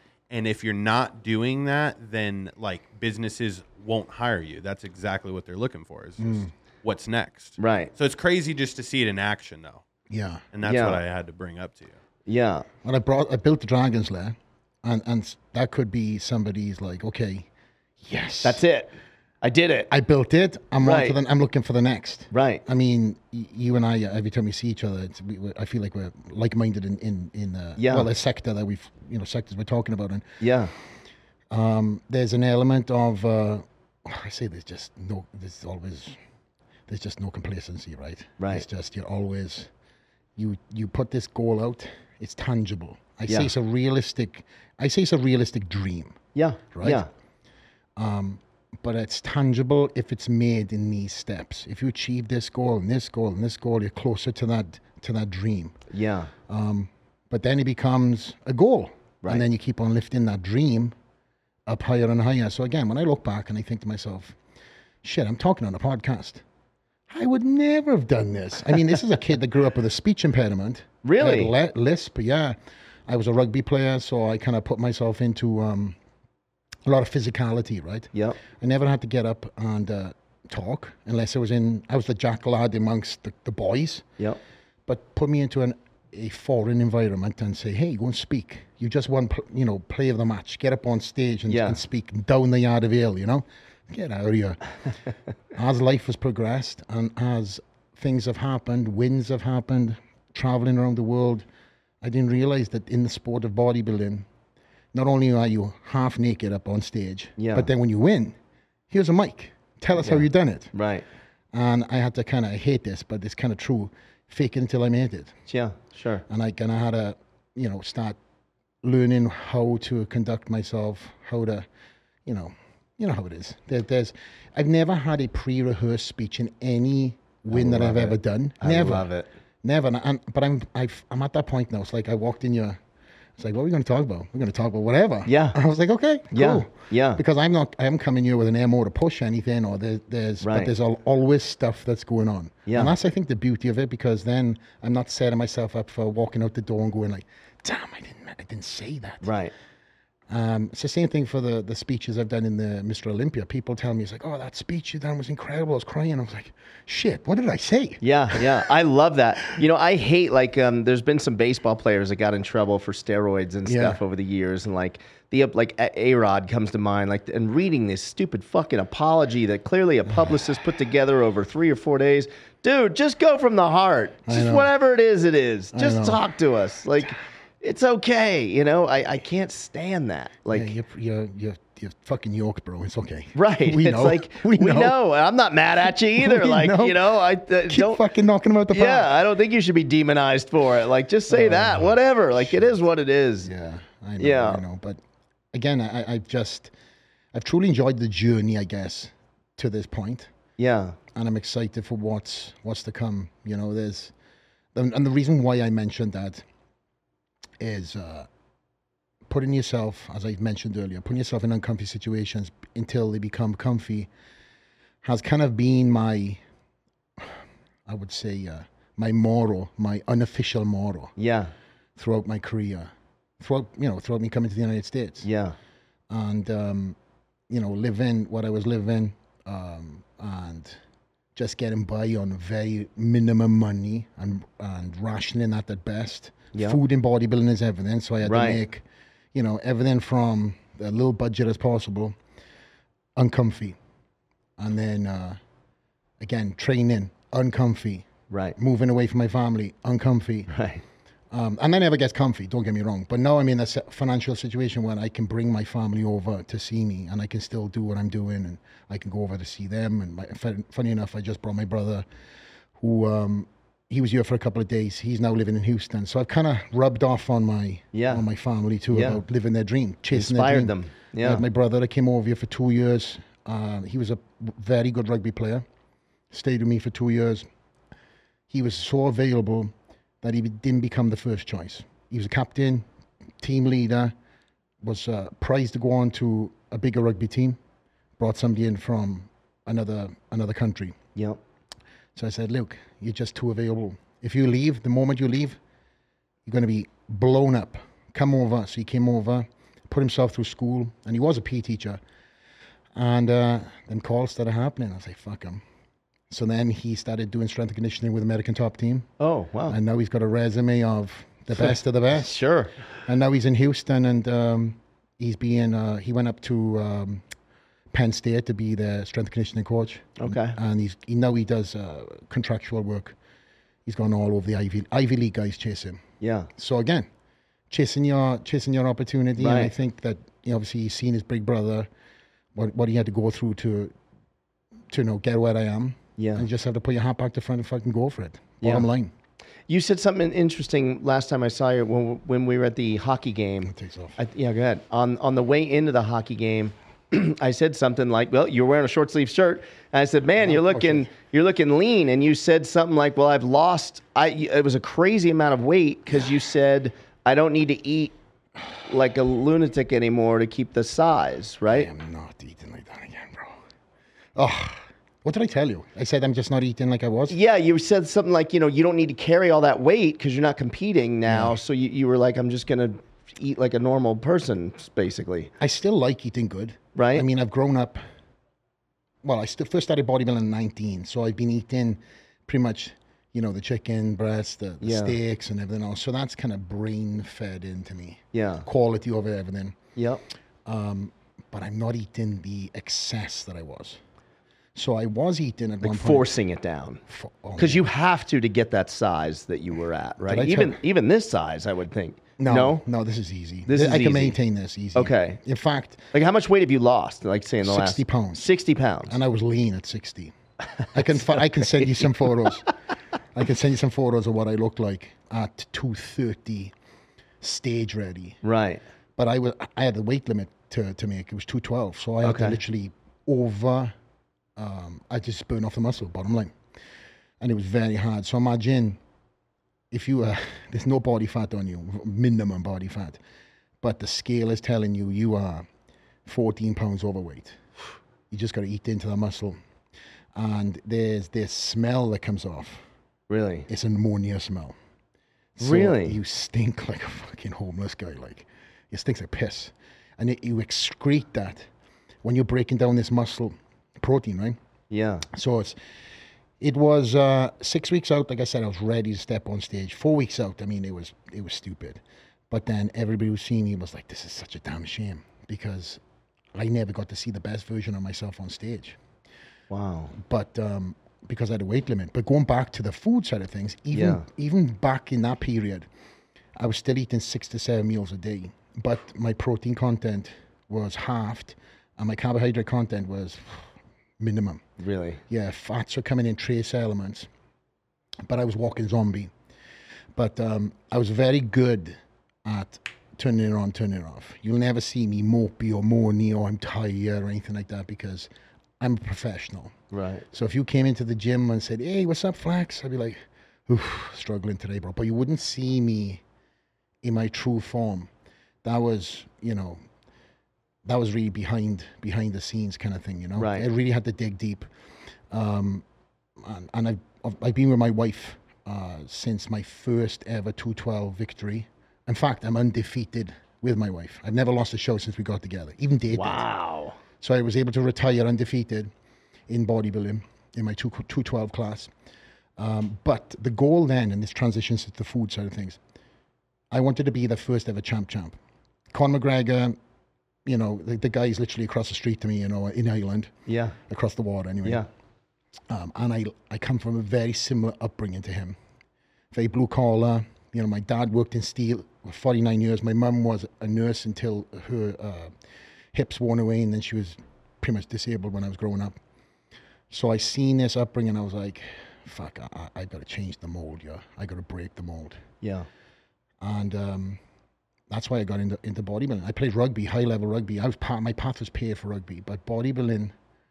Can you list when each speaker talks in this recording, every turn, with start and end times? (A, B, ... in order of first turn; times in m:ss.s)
0:00.3-0:09.8 A
0:06.2-0:06.5 B
0:07.6-0:07.9 C
0:10.1-0:10.4 B
0:10.5-0:12.0 A
0:10.6-0:11.0 C
0:12.3-0:12.7 C
0:12.8-0:17.5 B
0:18.0-0:18.6 B
0:18.4-0:18.9 C
0:19.4-0:19.9 C
0:19.9-0:30.4 B
0:20.8-0:21.2 C
0:22.3-0:22.6 C
0:27.8-0:28.1 C
0:30.4-0:30.7 C
0:31.5-0:36.2 B
0:36.9-0:39.7 B
0:38.4-0:38.7 C
0:40.4-0:46.2 B
0:46.4-0:47.1 C
0:46.7-0:47.0 B
0:48.0-0:55.8 B
0:55.9-0:56.3 C
0:56.5-1:01.0 B
1:01.7-1:04.4 B
1:05.0-1:06.4 B
1:07.1-1:12.6 B
1:11.0-1:11.5 C
1:13.1-1:16.0 B
1:16.9-1:24.1 B
1:18.1-1:18.4 C
1:24.9-1:34.6 B
1:31.5-1:31.8 C
1:35.5-1:41.4 B
1:42.0-1:44.3 B
1:44.9-1:48.4 B
1:47.4-1:47.7 C
1:48.9-1:50.7 B
1:50.0-1:51.0 C
1:51.5-1:55.4 B
1:55.5-1:56.2 C
1:56.3-1:58.2 B
1:58.8-2:01.7 B
2:02.2-2:09.1 B
2:07.5-2:09.3 C
2:09.6-2:12.8 B
2:13.4-2:29.3 B
2:15.3-2:15.6 C
2:16.3-2:17.2 C
2:20.4-2:20.7 C
2:22.7-2:22.9 C
2:29.2-2:29.5 C
2:30.3-2:38.7 B
2:38.0-3:00.7 C
2:43.7-2:44.0 B
2:54.3-2:54.7 B
2:55.7-2:56.2 B
3:00.5-3:05.0 B
3:03.4-3:08.0 C
3:05.8-3:07.2 B
3:07.7-3:09.1 B
3:08.7-3:13.5 C
3:11.3-3:12.5 B
3:13.5-3:15.0 B
3:14.2-3:14.6 C
3:15.5-3:16.7 B
3:17.3-3:20.3 B
3:20.6-3:21.0 C
3:21.1-3:24.1 B
3:24.8-3:26.4 B
3:27.6-3:28.3 B
3:29.3-3:34.1 B
3:35.0-3:36.4 B
3:37.2-3:41.1 B
3:41.2-3:41.5 C
3:42.0-3:45.3 B
3:45.2-3:45.6 C
3:46.1-3:47.0 B
3:47.5-3:50.8 B
3:51.4-4:02.2 B
3:58.2-3:58.6 C
4:03.2-4:03.8 B
4:04.6-4:05.4 B
4:06.2-4:10.5 B
4:08.3-4:08.6 C
4:10.5-4:10.8 C
4:11.3-4:22.1 B
4:22.8-4:35.6 B
4:27.9-4:28.2 C
4:28.9-4:29.2 C
4:30.1-4:31.4 C
4:36.3-4:37.5 B
4:38.5-4:42.9 B
4:43.4-4:44.1 B
4:44.8-4:47.6 B
4:48.2-4:51.0 B
4:51.2-4:51.4 C
4:52.2-4:55.6 B
4:56.4-5:02.0 B
5:03.0-5:05.6 B
5:06.3-5:09.1 B
5:09.2-5:09.8 C
5:09.7-5:12.4 B
5:11.6-5:12.7 C
5:13.1-5:17.2 B
5:17.9-5:23.2 B
5:20.2-5:20.6 C
5:23.9-5:26.0 B
5:26.2-5:26.5 C
5:26.6-5:27.1 B
5:27.7-5:31.9 B
5:29.4-5:29.7 C
5:32.6-5:33.9 B
5:34.9-5:39.1 B
5:36.2-5:36.5 C
5:38.6-5:38.9 C
5:39.7-5:58.2 C
5:43.6-5:44.2 B
5:50.4-5:51.1 B
5:58.8-6:01.9 C
6:01.7-6:03.6 B
6:04.4-6:07.4 B
6:07.3-6:15.5 C
6:11.3-6:11.6 B
6:15.6-6:18.0 B
6:17.0-6:17.3 C
6:19.2-6:29.8 B
6:24.8-6:25.2 C
6:28.3-6:28.7 C
6:30.0-6:30.2 C
6:30.6-6:34.0 B
6:34.8-6:36.3 B
6:35.8-6:37.0 C
6:37.1-6:37.9 B
6:37.6-6:42.8 C
6:40.3-6:40.8 B
6:42.4-6:46.1 B
6:43.7-6:44.4 C
6:45.0-6:45.4 C
6:46.1-6:49.2 C
6:47.6-6:48.5 B
6:49.1-6:50.3 B
6:50.8-6:52.0 C
6:50.9-6:52.7 B
6:53.3-6:56.7 B
6:57.4-6:58.4 B
6:58.4-6:58.8 C
6:59.2-7:03.9 B
7:02.2-7:02.6 C
7:04.6-7:06.6 B
7:07.4-7:09.0 B
7:09.9-7:13.2 B
7:13.8-7:15.7 B
7:16.3-7:17.6 B
7:18.3-7:19.6 B
7:20.4-7:22.8 B
7:23.3-7:23.7 C
7:23.7-7:24.8 B
7:25.6-7:31.7 B
7:25.6-7:26.2 C
7:32.2-7:34.6 B
7:34.9-7:35.3 C
7:35.3-7:35.8 B
7:36.6-7:46.0 B
7:46.5-7:49.0 B
7:49.7-7:50.1 C
7:50.1-7:55.9 B
7:53.9-7:54.3 C
7:56.6-8:04.6 B
8:04.8-8:05.2 C
8:05.3-8:07.3 B
8:08.2-8:09.3 B
8:10.2-8:18.3 B
8:18.8-8:19.7 B
8:19.9-8:20.2 C
8:20.3-8:26.2 B
8:27.0-8:28.1 B
8:28.6-8:29.8 B
8:30.8-8:34.7 B
8:33.4-8:33.7 C
8:35.3-8:35.8 B
8:36.4-8:46.4 B
8:46.1-8:47.0 C
8:47.2-8:48.9 B
8:49.5-8:51.9 B
8:52.6-8:55.8 B
8:56.7-8:58.4 B
8:58.9-8:59.8 B
9:00.4-9:03.3 B
9:03.5-9:03.8 C
9:03.9-9:04.8 B
9:05.7-9:08.6 B
9:09.3-9:15.4 B
9:15.9-9:19.0 B
9:19.9-9:25.2 B
9:25.4-9:25.7 C
9:26.4-9:27.2 B
9:27.9-9:33.1 B